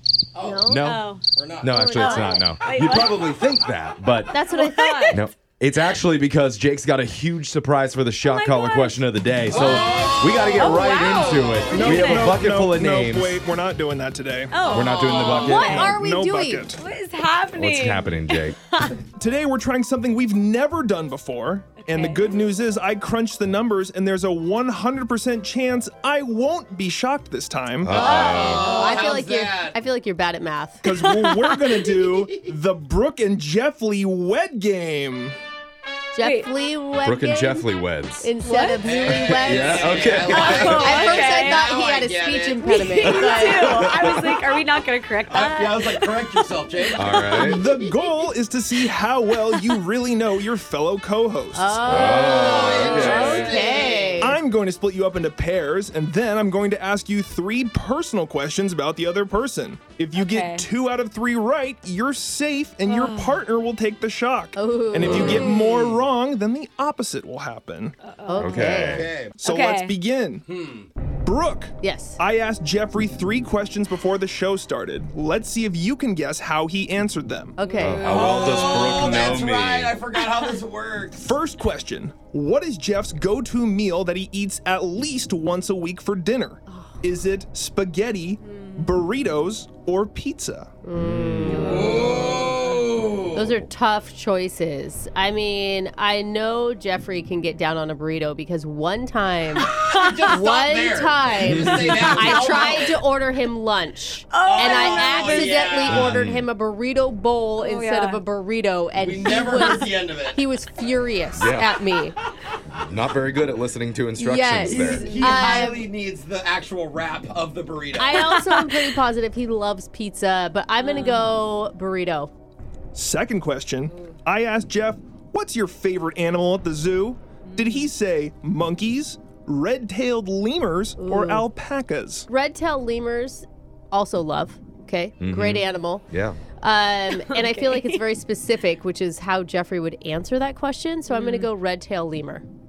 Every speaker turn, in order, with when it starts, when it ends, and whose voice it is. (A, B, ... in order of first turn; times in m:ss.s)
0:00.4-0:00.6 A
0:00.4-0:00.9 B
0:00.7-0:01.1 C
0:00.8-0:01.2 D
0:01.4-0:01.7 A
0:01.6-0:04.4 C
0:01.7-0:02.4 B
0:01.9-0:03.3 D
0:04.3-0:05.2 B
0:04.4-0:05.2 D
0:05.1-0:13.4 C
0:08.2-0:12.4 D
0:09.5-0:12.1 A
0:11.7-0:16.8 E
0:14.5-0:16.0 D
0:14.7-0:15.9 C
0:14.8-0:16.7 B
0:16.8-0:19.0 D
0:17.5-0:18.6 C
0:19.2-0:28.0 E
0:21.8-0:22.4 D
0:27.8-0:28.8 C
0:27.9-0:29.8 A
0:27.9-0:30.9 B
0:30.8-0:35.4 E
0:30.9-0:31.9 D
0:36.2-0:37.7 B
0:36.2-0:36.5 D
0:37.0-0:38.3 C
0:38.2-0:43.8 B
0:38.4-0:38.9 D
0:38.8-0:43.2 A
0:39.4-0:40.8 C
0:40.3-0:41.7 D
0:42.7-0:46.2 D
0:43.5-0:44.4 C
0:45.3-0:47.7 A
0:47.0-0:47.6 C
0:47.4-0:52.1 E
0:51.6-0:54.4 B
0:51.8-0:53.5 C
0:52.1-0:54.3 A
0:53.1-0:53.9 D
0:54.2-1:08.0 E
1:00.2-1:00.7 D
1:02.9-1:03.4 D
1:04.6-1:05.6 B
1:05.1-1:06.0 A
1:08.0-1:10.0 D
1:08.3-1:09.1 B
1:08.4-1:09.1 C
1:08.9-1:09.4 A
1:09.4-1:10.4 E
1:10.5-1:10.9 A
1:11.2-1:17.6 E
1:11.8-1:12.2 B
1:17.6-1:18.5 B
1:17.8-1:20.0 C
1:18.0-1:21.3 A
1:21.1-1:30.7 E
1:30.8-1:32.3 B
1:31.0-1:31.8 C
1:31.6-1:33.6 A
1:33.3-1:52.2 B
1:39.7-1:43.0 A
1:39.7-1:40.4 D
1:41.4-1:42.1 C
1:42.3-1:42.8 D
1:44.3-1:45.8 D
1:44.4-1:46.1 A
1:45.9-1:46.5 C
1:47.6-1:48.2 D
1:49.0-1:50.4 A
1:51.4-1:51.7 C
1:52.7-1:55.1 C
1:54.2-1:55.9 B
1:54.7-1:58.3 A
1:55.1-1:55.7 D
1:58.0-2:02.3 B
1:58.3-1:58.9 D
2:00.8-2:01.3 D
2:03.0-2:12.3 E
2:07.5-2:07.9 D
2:11.0-2:11.5 B
2:12.3-2:16.0 B
2:15.2-2:16.4 C
2:16.6-2:22.4 B
2:17.3-2:18.0 D
2:21.1-2:21.5 D